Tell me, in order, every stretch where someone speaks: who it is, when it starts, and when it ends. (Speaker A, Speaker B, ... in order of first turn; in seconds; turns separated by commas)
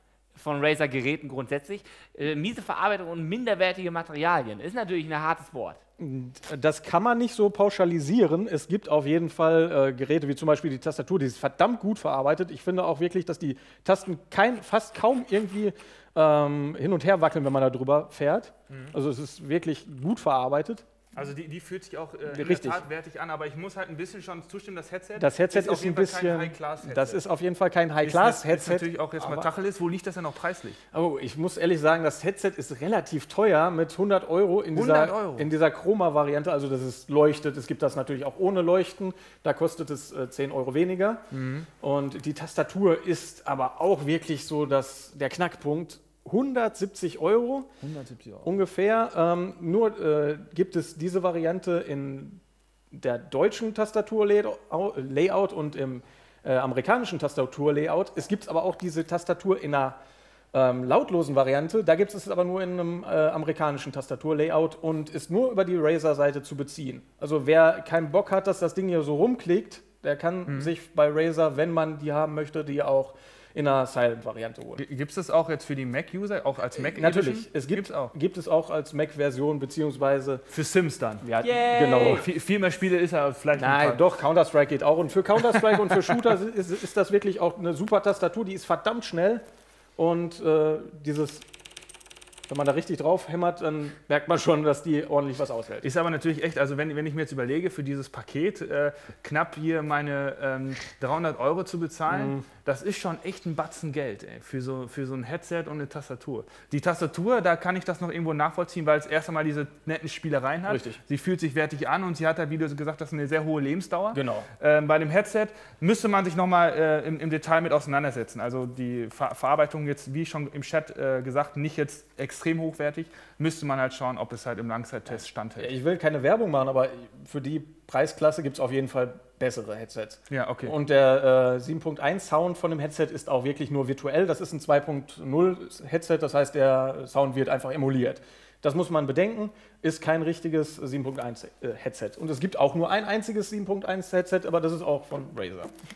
Speaker A: 0.3-5.8, Speaker B: 6.0-20.8, Speaker C: 21.1-27.2, Speaker B: 22.3-22.8, Speaker B: 25.2-29.5, Speaker C: 28.0-30.8, Speaker B: 30.9-41.2, Speaker C: 34.7-35.5, Speaker C: 41.3-41.7, Speaker B: 41.8-47.7, Speaker C: 47.8-48.5, Speaker B: 48.4-52.4, Speaker B: 52.9-60.0, Speaker B: 60.5-74.8, Speaker C: 70.5-70.7, Speaker C: 74.8-78.1, Speaker B: 76.8-80.5, Speaker C: 80.5-81.2, Speaker B: 81.2-82.3, Speaker A: 81.4-82.2, Speaker C: 82.0-84.0, Speaker B: 83.5-89.4, Speaker B: 90.0-91.5, Speaker B: 92.5-95.9, Speaker C: 95.8-125.7, Speaker B: 102.1-102.5, Speaker B: 110.7-111.0, Speaker B: 114.1-114.5, Speaker B: 125.6-145.7, Speaker C: 130.3-130.8